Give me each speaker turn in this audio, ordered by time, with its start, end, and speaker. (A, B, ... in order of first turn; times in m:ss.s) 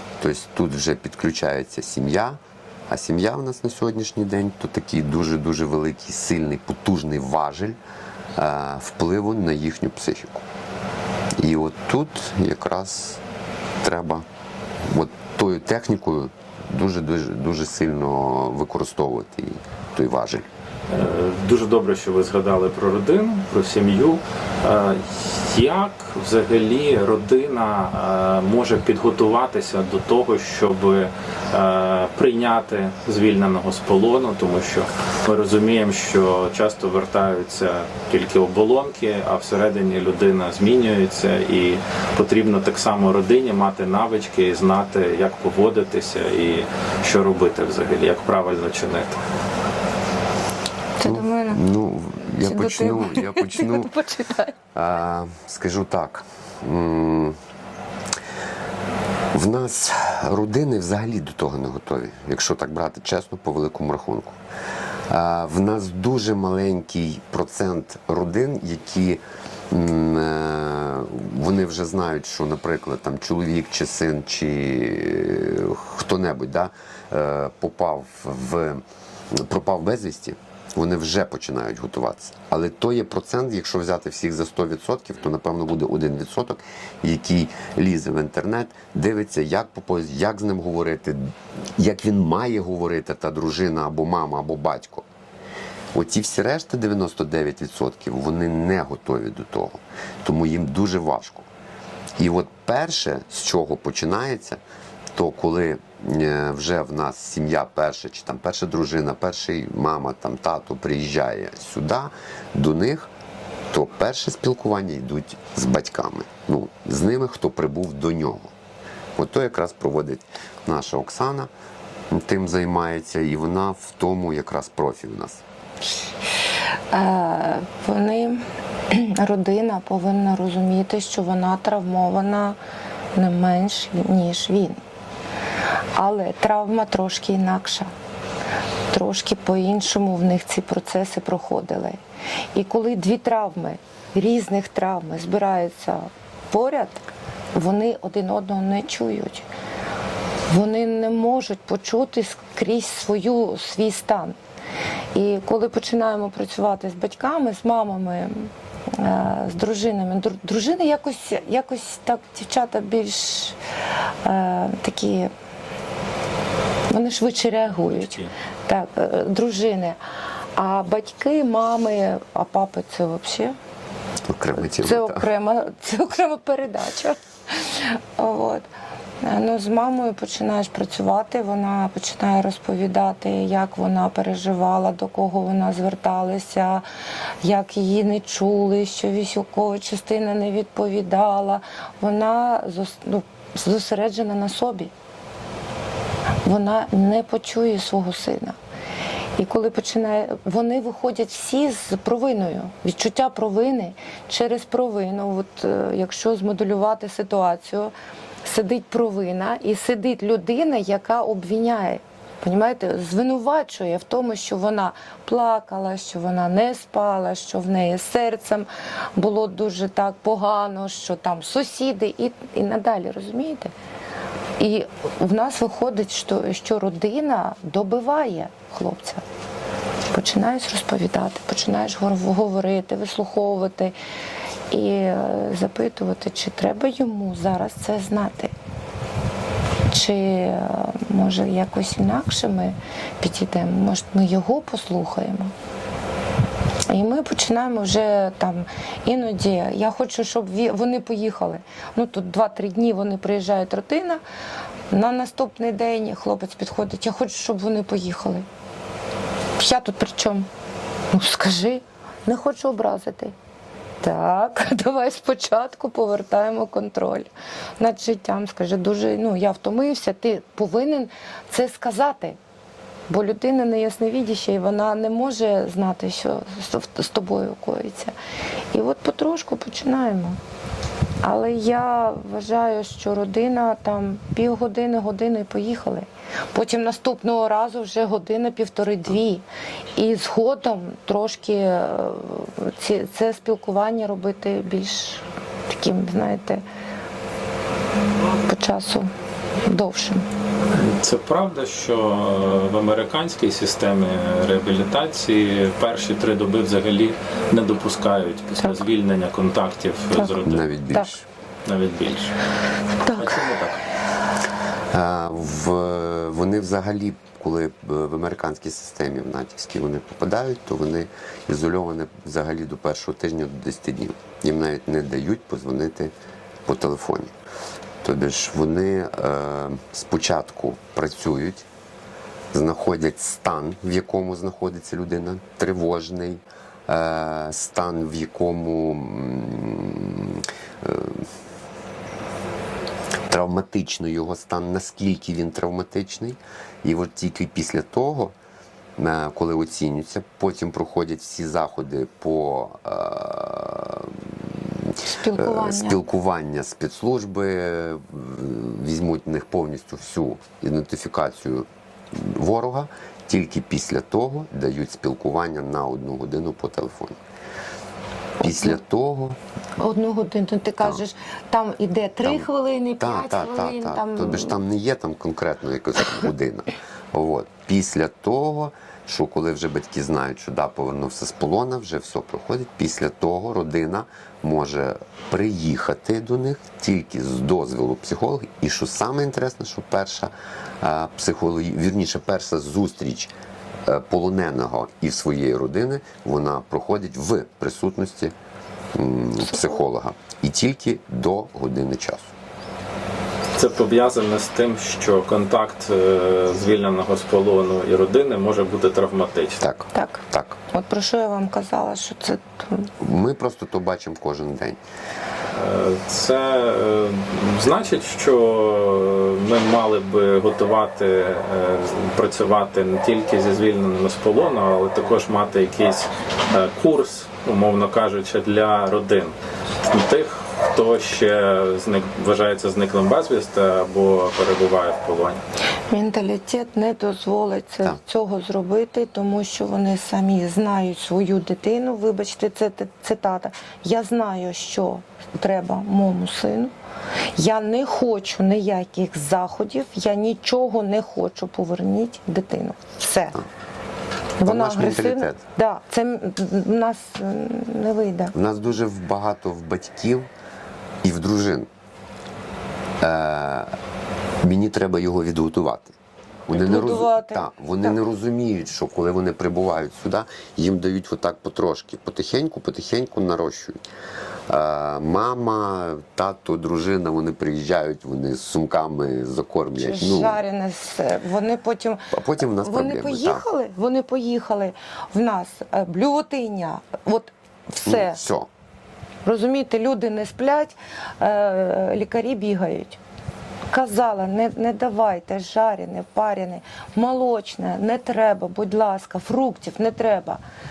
0:00.2-0:07.8 A
0:08.4-0:10.4 A
0:11.4-0:13.2 A
0:13.8-0:14.2 A
0:14.9-0:20.5 A
0:20.9-0:49.2 B
0:51.0-0:51.6 C
0:51.0-0:53.9 A
0:52.4-0:54.6 C
0:54.7-0:57.4 A
0:59.3-1:04.4 A
1:05.1-1:18.8 A
1:19.3-1:35.1 A
1:35.9-1:41.5 A
1:42.2-1:44.6 A
1:45.2-1:53.1 A
1:53.7-1:58.5 A
1:59.2-2:01.5 A
2:02.1-2:05.4 A
2:06.9-2:12.6 C
2:13.2-2:14.8 C
2:15.9-2:17.9 C
2:18.9-2:22.0 C
2:22.5-2:29.5 C
2:30.5-2:34.4 C
2:35.1-2:43.6 C
2:44.2-2:45.3 C
2:46.9-2:50.0 C
2:50.6-2:53.6 C
2:54.3-2:55.3 A
2:54.6-2:58.7 C
2:59.2-3:06.8 C
3:07.4-3:14.9 C
3:16.4-3:18.6 C
3:19.4-3:43.7 C
3:44.6-3:49.2 C
3:50.1-3:54.0 C
3:54.7-3:58.5 C
3:59.9-4:05.5 C
4:06.9-4:14.2 C
4:14.9-4:18.4 C
4:19.6-4:20.5 C
4:21.1-4:23.3 C
4:24.0-4:32.4 C
4:33.1-4:38.2 C
4:38.7-4:40.4 C
4:41.2-4:49.4 C
4:50.0-4:56.6 C
4:58.4-5:00.3 C
5:00.7-5:10.7 B
5:10.2-5:11.2 A
5:11.7-5:12.3 B
5:13.1-5:13.8 B
5:14.9-5:26.1 A
5:26.7-5:27.3 A
5:28.0-5:31.7 A
5:32.5-5:41.3 A
5:43.3-5:48.3 A
5:49.0-6:07.2 A
5:55.0-5:56.0 C
6:08.4-6:09.4 A
6:09.8-6:14.6 C
6:12.2-6:33.3 A
6:33.8-6:38.3 A
6:38.9-6:42.3 A
6:43.6-6:49.6 B
6:49.6-6:50.6 A
6:49.9-6:52.9 C
6:53.0-6:54.8 A
6:55.5-7:09.3 B
7:09.9-7:15.4 B
7:15.9-7:26.7 C
7:27.3-7:33.4 C
7:34.4-7:38.3 C
7:34.4-7:35.4 A
7:38.3-7:40.3 A
7:41.0-7:41.7 A
7:43.0-7:43.8 A
7:44.4-7:45.9 A
7:46.5-7:48.0 C
7:46.5-7:53.8 A
7:54.5-8:00.4 A
7:59.8-8:08.2 C
8:02.1-8:03.4 A
8:07.8-8:08.5 A
8:09.2-8:13.0 C
8:13.7-8:20.4 C